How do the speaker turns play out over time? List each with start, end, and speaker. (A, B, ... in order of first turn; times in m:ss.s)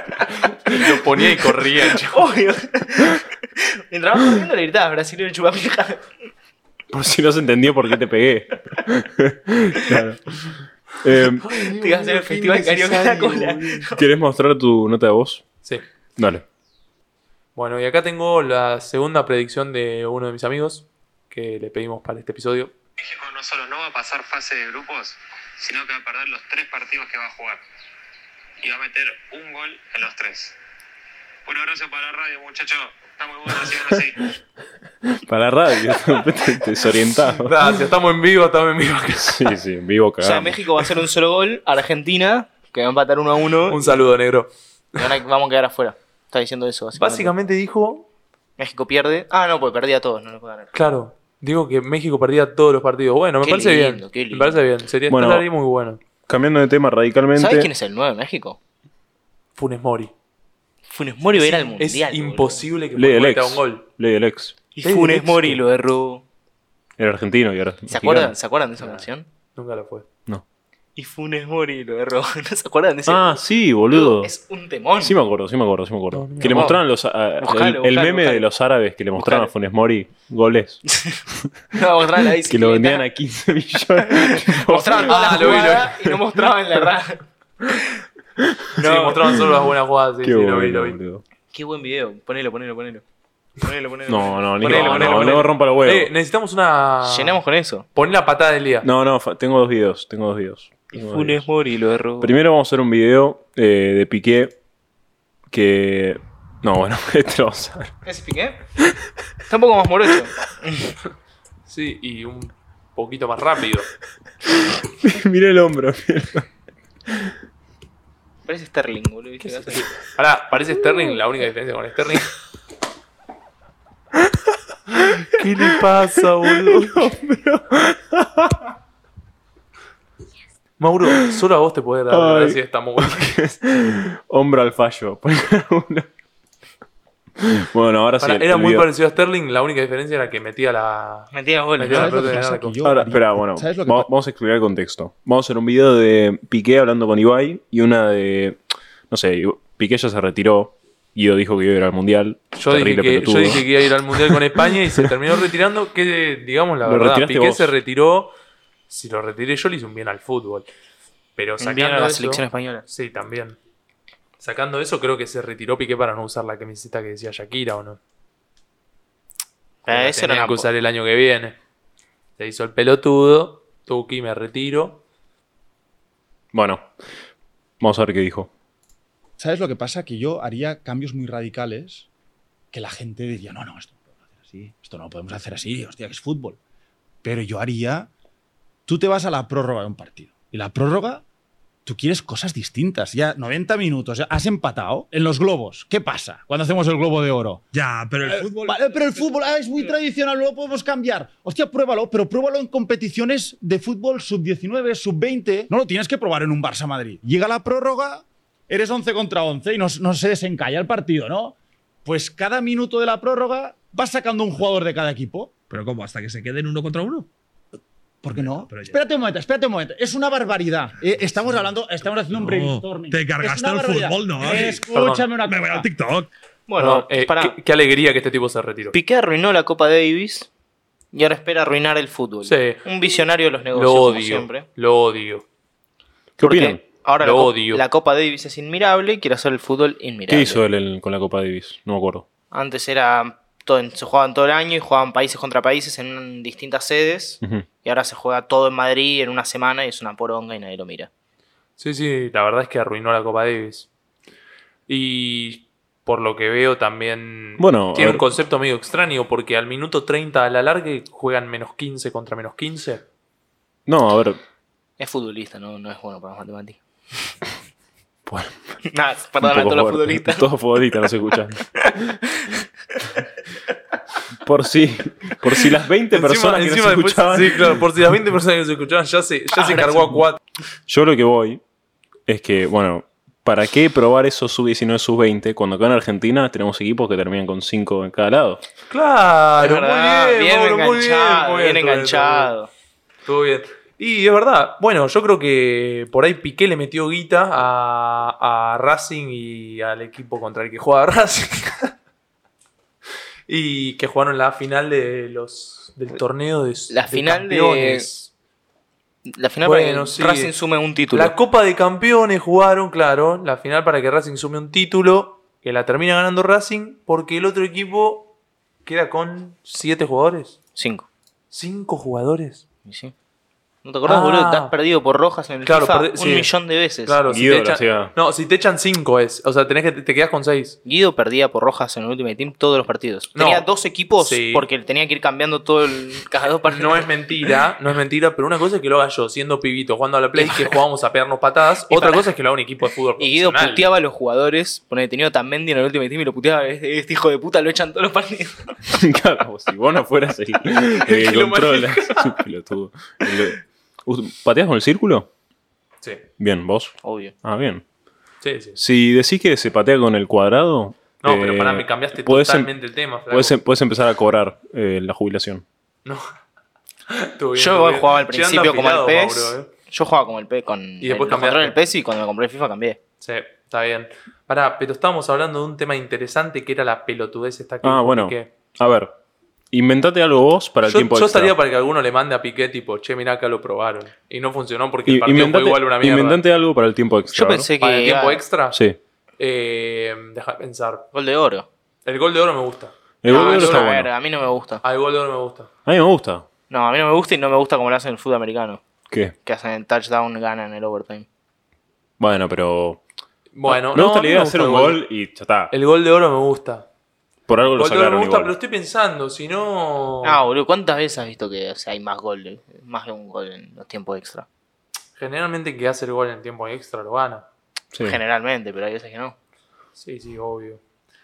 0:00.2-0:00.8 A
0:00.2-0:02.3 B
0:02.0-0:06.1 A
0:06.9-0:10.5 C
0:11.0-0:11.5 C
0:11.4-0:13.9 B
0:11.7-0:14.0 A
0:14.0-0:15.4 C
0:16.2-0:16.4 C
0:17.6-0:22.7 B
0:23.0-0:27.6 D
0:28.6-0:30.6 D
0:31.4-0:34.3 D
0:35.2-0:37.8 C
0:37.3-0:39.6 B
0:39.2-0:40.6 C
0:40.2-0:44.0 A
0:43.7-0:44.5 B
0:45.0-0:47.3 A
0:47.0-0:48.1 B
0:48.6-0:50.7 A
0:50.8-0:56.0 B
0:53.4-0:54.6 A
0:55.1-0:55.5 C
0:56.3-0:57.7 C
0:57.4-0:58.6 A
0:59.6-1:00.1 B
1:00.9-1:02.6 A
1:01.4-1:03.8 B
1:03.0-1:04.6 C
1:04.7-1:06.2 A
1:04.8-1:05.6 B
1:07.0-1:08.3 C
1:07.9-1:09.3 A
1:08.8-1:10.1 B
1:11.0-1:13.4 A
1:13.1-1:14.3 C
1:13.9-1:15.2 A
1:15.0-1:20.8 C
1:16.1-1:16.8 B
1:16.4-1:16.8 A
1:17.4-1:18.5 A
1:19.2-1:19.5 A
1:20.9-1:21.2 A
1:21.7-1:23.0 A
1:22.5-1:25.6 C
1:24.2-1:27.2 A
1:25.0-1:26.0 B
1:28.4-1:28.6 C
1:28.8-1:29.4 A
1:28.8-1:31.0 B
1:30.2-1:31.2 C
1:31.5-1:33.0 A
1:33.6-1:35.5 A
1:34.1-1:36.1 C
1:34.6-1:37.4 B
1:37.0-1:37.9 A
1:37.9-1:38.9 B
1:38.8-1:41.4 C
1:40.9-1:42.3 A
1:42.2-1:44.6 C
1:45.5-1:47.9 C
1:48.0-1:48.6 A
1:49.5-1:50.9 A
1:51.7-1:53.9 B
1:54.6-1:56.5 C
1:58.5-1:59.9 A
1:59.4-2:02.3 B
2:05.0-2:07.1 B
2:06.4-2:08.7 C
2:10.8-2:13.4 B
2:12.1-2:16.1 C
2:17.4-2:18.9 C
2:18.2-2:22.8 B
2:21.3-2:22.4 A
2:21.9-2:24.1 E
2:22.8-2:28.6 C
2:29.1-2:35.1 C
2:32.6-2:38.3 B
2:36.8-2:37.7 C
2:38.9-2:40.7 B
2:41.4-2:43.6 B
2:41.6-2:42.8 A
2:44.4-2:48.0 B
2:49.8-2:50.7 A
2:49.9-2:51.6 B
2:52.4-2:55.0 B
2:56.5-2:56.9 C
2:57.8-2:58.5 C
2:59.4-3:02.1 E
3:02.7-3:06.6 E
3:07.2-3:08.1 E
3:08.9-3:11.2 E
3:11.9-3:35.5 E
3:17.7-3:19.6 F
3:35.7-3:37.3 F
3:38.2-3:45.9 E
3:38.4-3:39.0 F
3:42.3-3:44.9 F
3:44.9-3:45.3 B
3:45.4-3:46.3 F
3:46.7-3:47.6 A
3:46.8-3:49.0 B
3:48.9-3:50.5 A
3:51.1-3:54.6 A
3:52.4-3:52.8 B
3:53.7-3:55.4 B
3:56.4-3:56.8 C
3:56.4-4:00.6 A
3:57.2-3:57.8 B
4:00.3-4:02.3 C
4:02.5-4:11.1 A
4:11.8-4:13.9 B
4:14.9-4:23.0 B
4:17.6-4:18.3 C
4:23.9-4:24.4 C
4:25.0-4:26.8 A
4:28.3-4:28.6 C
4:28.9-4:30.5 A
4:29.4-4:32.2 C
4:31.8-4:33.2 A
4:34.4-4:37.8 C
4:36.1-4:40.4 B
4:39.6-4:40.0 A
4:40.9-4:41.6 C
4:42.3-4:48.6 C
4:48.9-4:52.5 B
4:49.6-4:52.7 A
4:53.3-5:01.9 B
5:03.5-5:08.3 B
5:06.9-5:08.1 A
5:09.3-5:11.3 A
5:09.6-5:10.5 B
5:11.1-5:18.3 B
5:18.9-5:20.6 B
5:20.8-5:21.1 A
5:21.5-5:22.6 B
5:22.9-5:23.1 A
5:23.8-5:27.2 A
5:24.1-5:24.7 B
5:25.6-5:30.8 B
5:27.3-5:28.1 C
5:30.9-5:37.1 A
5:33.4-5:33.7 B
5:34.2-5:34.7 B
5:36.7-5:43.9 B
5:40.4-5:40.8 A
5:41.9-5:42.3 A
5:43.2-5:48.8 A
5:48.9-5:55.3 C
5:51.0-5:52.4 B
5:56.4-5:57.8 C
5:57.0-5:57.3 A
5:58.4-5:58.8 B
5:58.8-6:02.7 C
6:01.2-6:03.6 B
6:03.3-6:05.6 C
6:07.1-6:09.7 B
6:07.6-6:13.0 A
6:11.0-6:11.8 B
6:13.2-6:18.5 B
6:17.8-6:19.2 C
6:19.7-6:21.6 C
6:20.9-6:26.4 B
6:25.1-6:27.7 C
6:27.3-6:28.4 A
6:27.8-6:28.8 B
6:28.7-6:29.0 C
6:29.4-6:31.1 B
6:31.1-6:31.7 A
6:32.1-6:33.9 B
6:33.2-6:34.1 C
6:33.3-6:34.8 A
6:34.8-6:35.7 B
6:35.9-6:36.5 C
6:36.7-6:38.8 A
6:39.4-6:41.3 A
6:42.2-6:43.0 C
6:43.5-6:45.0 B
6:43.7-6:45.7 C
6:45.7-6:46.9 B
6:47.5-6:48.6 C
6:47.8-6:50.4 B
6:50.2-6:54.5 A
6:55.2-6:57.4 B
6:57.9-6:58.2 C
6:58.0-6:59.4 A
7:00.0-7:00.8 B